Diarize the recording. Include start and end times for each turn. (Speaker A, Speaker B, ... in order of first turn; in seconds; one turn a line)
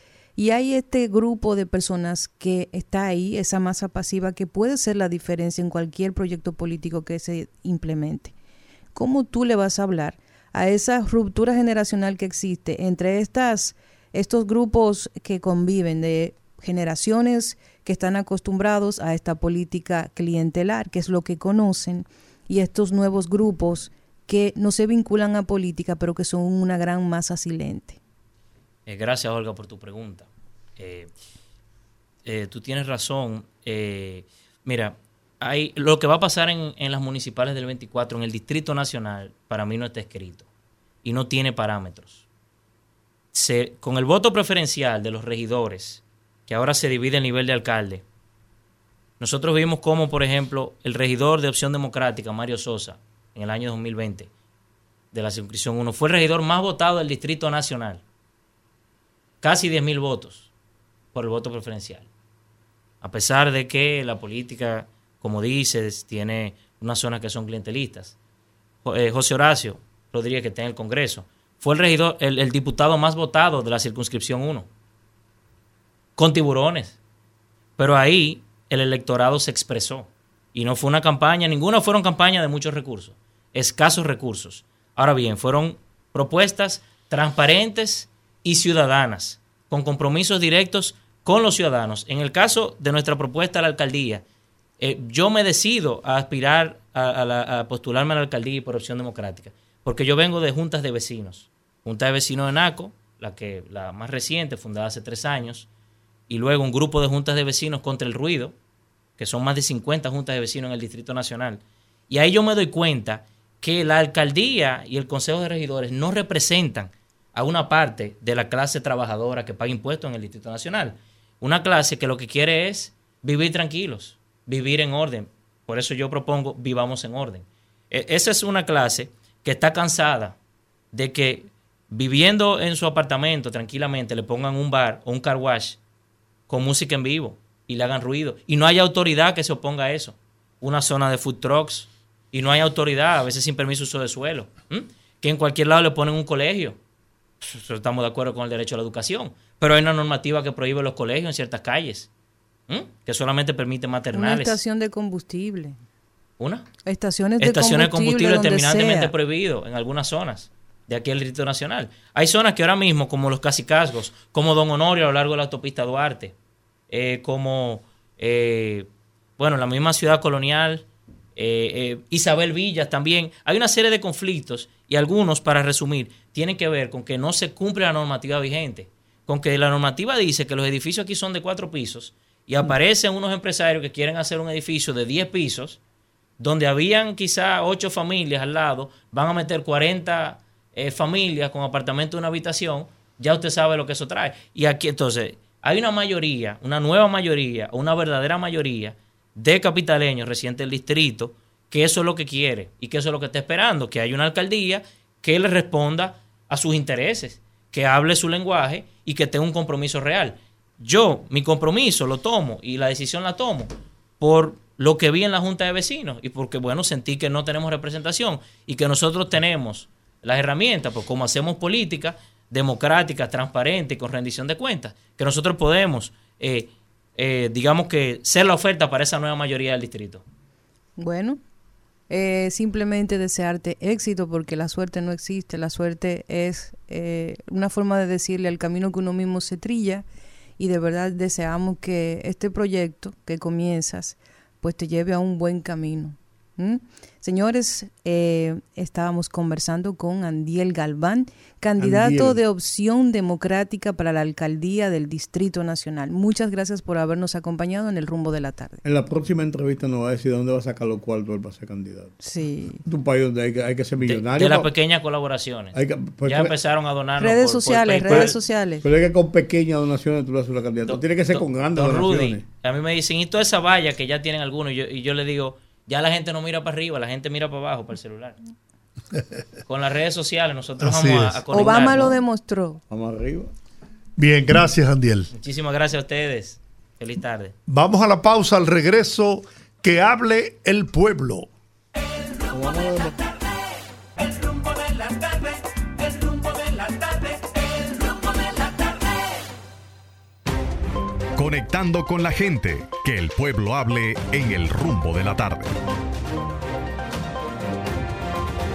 Speaker A: 0.4-8.3
Speaker A: 8.9-28.0
Speaker B: 28.9-31.1
Speaker B: 32.2-40.5
Speaker B: 41.0-42.2
Speaker B: 43.3-48.0
Speaker B: 49.2-54.3
Speaker B: 55.1-58.0
Speaker B: 59.4-60.5
Speaker B: 61.1-62.1
Speaker B: 63.0-68.2
Speaker B: 68.8-74.7
Speaker B: 76.2-77.0
Speaker B: 77.8-94.2
Speaker B: 94.8-105.7
Speaker B: 106.3-108.5
Speaker B: 109.2-130.3
Speaker B: 130.9-135.8
Speaker B: 136.5-146.8
Speaker B: 147.4-152.1
Speaker B: 152.7-154.6
Speaker A: 154.1-155.8
Speaker B: 156.4-156.7
Speaker A: 156.8-159.1
Speaker B: 157.4-166.3
Speaker B: 166.9-185.8
Speaker B: 186.4-230.2
Speaker A: 231.0-231.4
Speaker A: 232.1-240.0
Speaker A: 240.6-258.8
Speaker C: 251.8-252.4
Speaker C: 258.8-262.2
Speaker A: 262.2-262.8
Speaker C: 262.8-264.7
Speaker B: 264.0-268.4
Speaker C: 265.7-266.6
Speaker A: 267.2-268.8
Speaker C: 268.1-272.4
Speaker B: 270.9-278.4
Speaker B: 279.7-282.2
Speaker D: 280.8-281.4
Speaker A: 281.5-282.8
Speaker C: 282.9-283.5
Speaker D: 284.2-285.3
Speaker B: 285.3-287.5
Speaker D: 287.7-291.5
Speaker C: 292.5-293.2
Speaker E: 301.4-305.8